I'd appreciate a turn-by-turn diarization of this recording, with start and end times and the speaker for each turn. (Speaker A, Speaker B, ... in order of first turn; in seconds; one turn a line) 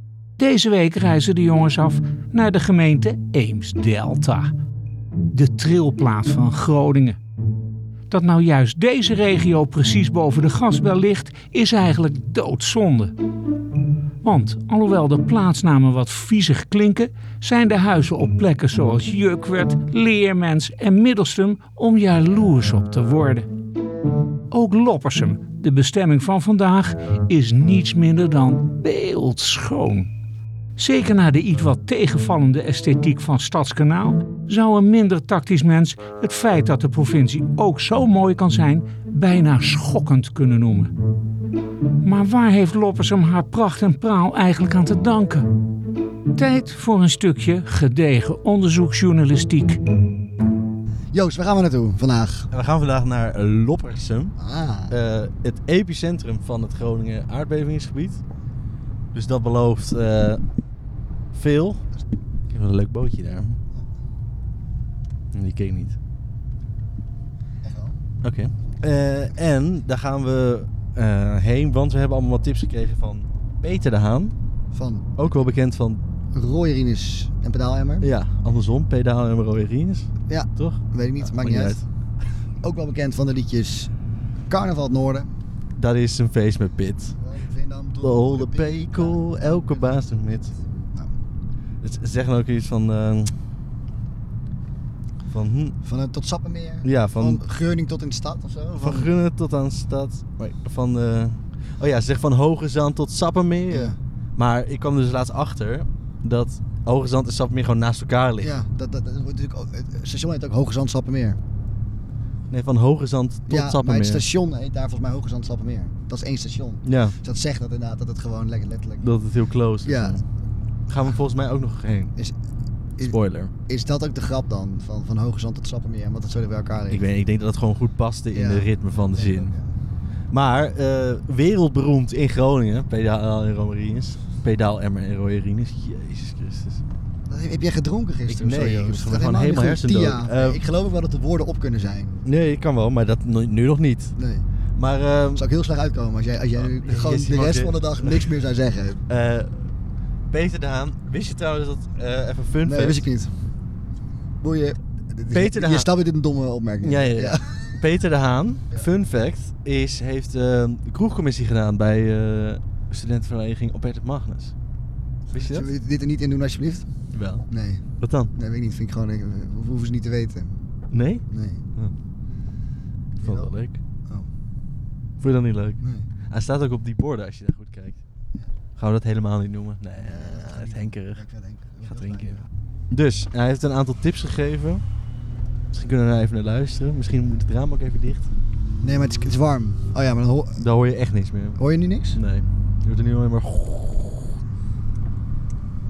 Speaker A: 0.4-4.5
Speaker A: 5.3-7.2
Speaker A: 8.1-13.1
Speaker A: 14.2-23.5
Speaker A: 24.5-30.1
Speaker A: 30.8-40.9
Speaker A: 42.0-45.5
Speaker A: 46.4-49.8
Speaker B: 51.1-52.5
Speaker C: 52.5-54.4
Speaker B: 54.4-55.0
Speaker C: 54.9-58.2
Speaker C: 59.1-60.4
Speaker C: 61.3-61.9
Speaker C: 62.5-63.6
Speaker C: 65.3-66.0
Speaker B: 67.6-68.0
Speaker C: 68.2-74.3
Speaker B: 74.7-75.5
Speaker C: 75.2-76.0
Speaker B: 76.3-78.1
Speaker C: 78.0-81.8
Speaker B: 80.3-81.8
Speaker B: 82.6-83.9
Speaker B: 84.5-85.3
Speaker C: 85.8-87.2
Speaker B: 87.2-89.8
Speaker C: 88.0-90.5
Speaker C: 91.8-93.3
Speaker C: 95.3-95.8
Speaker B: 95.8-99.1
Speaker C: 96.8-97.4
Speaker C: 98.8-108.5
Speaker B: 103.7-104.0
Speaker B: 108.4-111.4
Speaker C: 112.5-114.2
Speaker B: 113.5-119.1
Speaker C: 116.9-117.2
Speaker C: 119.0-120.2
Speaker B: 119.8-120.2
Speaker C: 120.9-122.1
Speaker C: 123.0-123.5
Speaker B: 123.7-127.0
Speaker C: 126.9-129.5
Speaker B: 128.3-129.7
Speaker C: 130.3-136.8
Speaker B: 137.3-142.2
Speaker C: 138.3-140.6
Speaker C: 142.2-144.1
Speaker B: 144.2-144.4
Speaker C: 144.8-145.4
Speaker B: 145.3-149.0
Speaker C: 146.6-148.3
Speaker C: 149.1-149.6
Speaker C: 150.3-153.1
Speaker B: 152.6-153.3
Speaker B: 154.4-157.4
Speaker C: 155.3-155.9
Speaker C: 156.8-164.5
Speaker B: 165.3-166.9
Speaker C: 165.3-165.7
Speaker C: 167.1-167.5
Speaker B: 167.5-167.8
Speaker C: 168.0-168.3
Speaker B: 168.3-170.6
Speaker C: 170.9-171.2
Speaker B: 171.3-171.7
Speaker B: 173.2-173.5
Speaker C: 173.2-173.8
Speaker C: 175.2-178.0
Speaker B: 175.8-176.1
Speaker C: 178.8-181.2
Speaker B: 180.0-182.5
Speaker C: 181.9-182.4
Speaker C: 182.9-184.8
Speaker C: 185.7-188.3
Speaker B: 188.8-190.6
Speaker C: 190.6-194.3
Speaker B: 191.6-192.2